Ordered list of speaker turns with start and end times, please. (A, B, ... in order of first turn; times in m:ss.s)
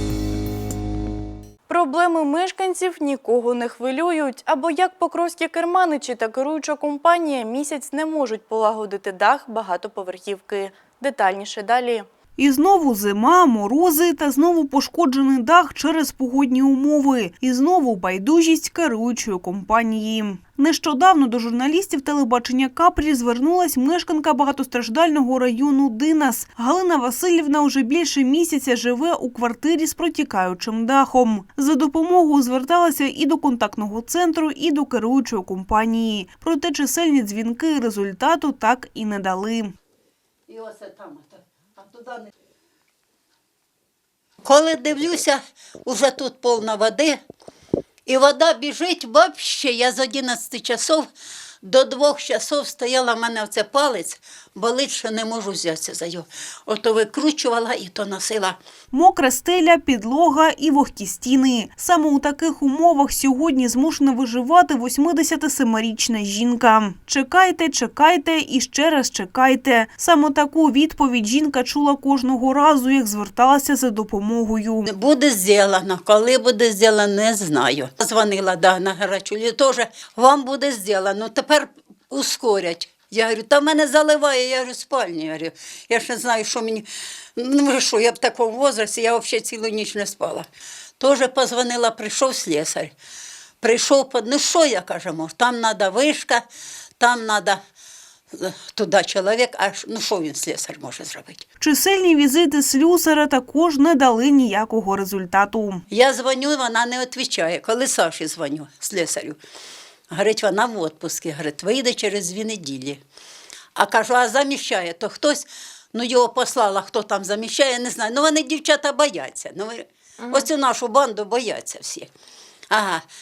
0:01.7-0:12.1 A
0:12.4-0:39.8 B
0:40.5-0:42.3 C
0:44.4-0:47.2 C
0:48.1-0:51.1 C
0:51.6-0:58.6 C
0:58.9-1:14.9 B
1:14.9-1:26.9 C
1:27.4-1:30.5 C
1:31.0-1:32.9 C
1:33.6-1:36.4 C
1:37.0-1:37.6 C
1:38.3-1:41.4 C
1:41.6-1:45.8 B
1:45.9-1:49.4 C
1:50.1-1:53.0 C
1:53.8-2:02.1 C
2:02.7-2:03.0 C